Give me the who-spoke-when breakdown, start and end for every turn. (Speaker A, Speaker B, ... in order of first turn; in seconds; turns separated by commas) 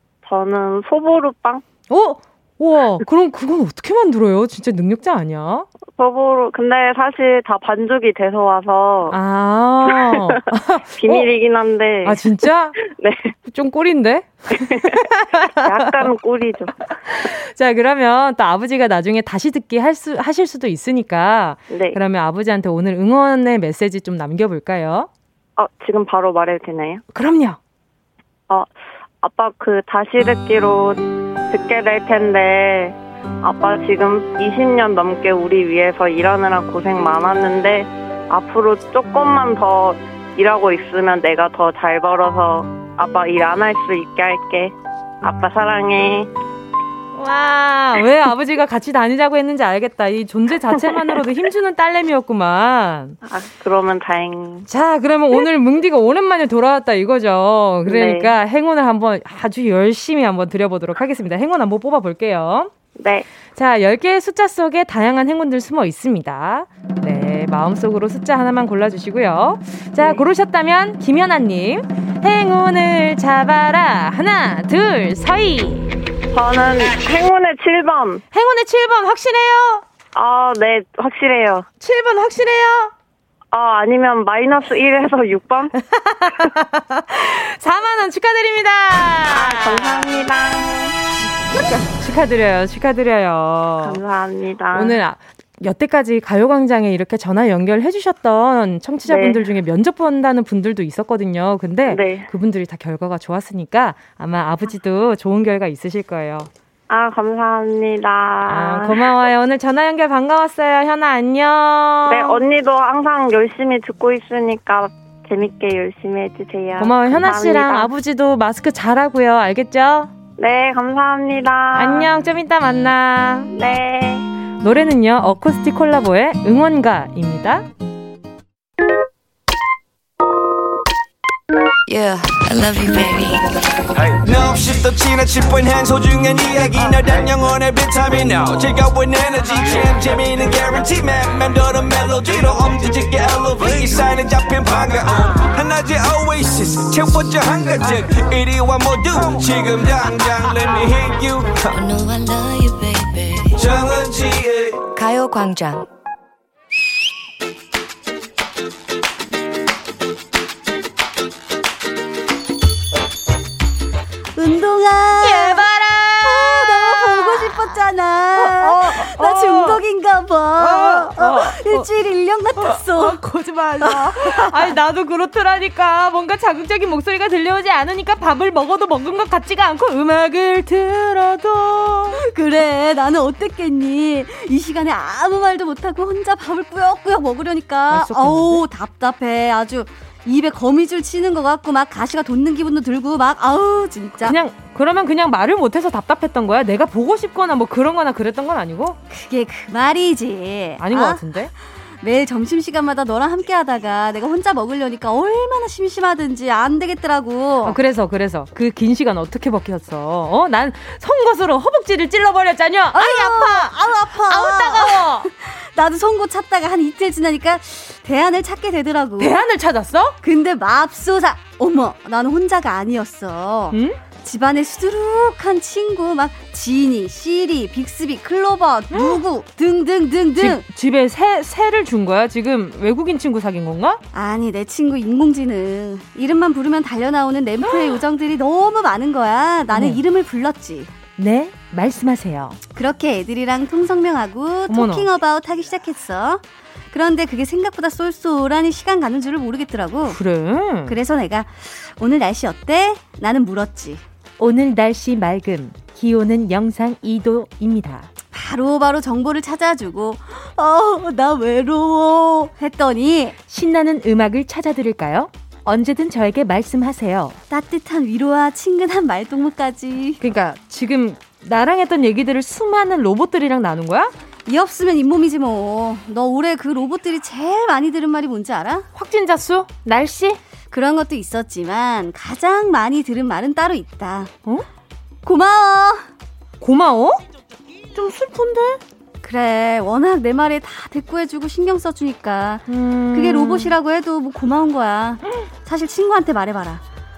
Speaker A: 0.2-1.6, Speaker B: 1.9-5.7, Speaker A: 6.0-9.2, Speaker B: 9.1-11.3, Speaker A: 9.9-10.3, Speaker A: 11.0-13.3, Speaker B: 12.1-12.8, Speaker B: 13.5-16.1, Speaker A: 14.6-16.9, Speaker B: 17.1-25.1, Speaker A: 21.7-22.0, Speaker A: 25.6-27.0, Speaker B: 27.1-27.6, Speaker A: 29.2-46.3, Speaker B: 47.1-53.2, Speaker A: 50.8-51.2, Speaker A: 53.2-54.7, Speaker B: 54.7-62.7, Speaker A: 57.9-58.3, Speaker A: 63.0-63.3, Speaker B: 63.6-76.0, Speaker A: 76.3-78.2, Speaker B: 78.3-79.8, Speaker A: 80.2-81.7, Speaker B: 81.8-82.9, Speaker A: 83.5-85.8, Speaker B: 85.8-90.1, Speaker A: 89.3-91.0, Speaker B: 91.5-94.0, Speaker A: 93.8-95.0, Speaker B: 94.7-106.5, Speaker A: 99.1-99.4, Speaker A: 101.9-102.3, Speaker A: 106.9-109.2, Speaker B: 108.5-112.4, Speaker A: 112.1-117.9, Speaker B: 116.8-120.1, Speaker A: 120.4-122.1, Speaker B: 121.8-123.5, Speaker A: 123.5-124.3, Speaker B: 124.6-127.7, Speaker C: 131.9-133.8, Speaker D: 134.0-151.7, Speaker C: 151.7-153.7, Speaker D: 153.6-154.8, Speaker C: 154.9-155.9, Speaker E: 164.4-165.7, Speaker B: 165.2-167.8, Speaker E: 166.2-173.2, Speaker B: 168.3-169.8, Speaker B: 170.6-171.9, Speaker B: 172.6-182.2, Speaker E: 173.8-174.7, Speaker E: 182.2-194.4, Speaker B: 187.9-188.6, Speaker B: 194.2-199.0, Speaker E: 199.1-201.2, Speaker B: 200.8-201.5, Speaker E: 202.0-207.8, Speaker B: 207.6-215.3, Speaker E: 212.9-219.3, Speaker B: 219.2-220.2, Speaker E: 220.2-230.6, Speaker B: 223.7-224.0, Speaker B: 228.9-229.2, Speaker B: 230.4-234.0, Speaker E: 234.1-240.9, Speaker B: 237.7-238.0, Speaker B: 239.7-240.0, Speaker B: 241.2-242.6, Speaker E: 242.7-250.2, Speaker B: 244.7-245.1, Speaker B: 250.1-251.0, Speaker E: 250.9-254.0, Speaker B: 254.4-258.1, Speaker E: 258.3-263.4, Speaker B: 263.5-267.4, Speaker E: 267.5-270.2, Speaker B: 270.2-274.1, Speaker E: 274.5-278.9, Speaker B: 278.9-280.4, Speaker E: 280.7-284.3, Speaker E: 285.2-286.1, Speaker B: 286.6-287.2, Speaker B: 287.9-288.8, Speaker E: 289.2-296.8, Speaker B: 292.7-293.8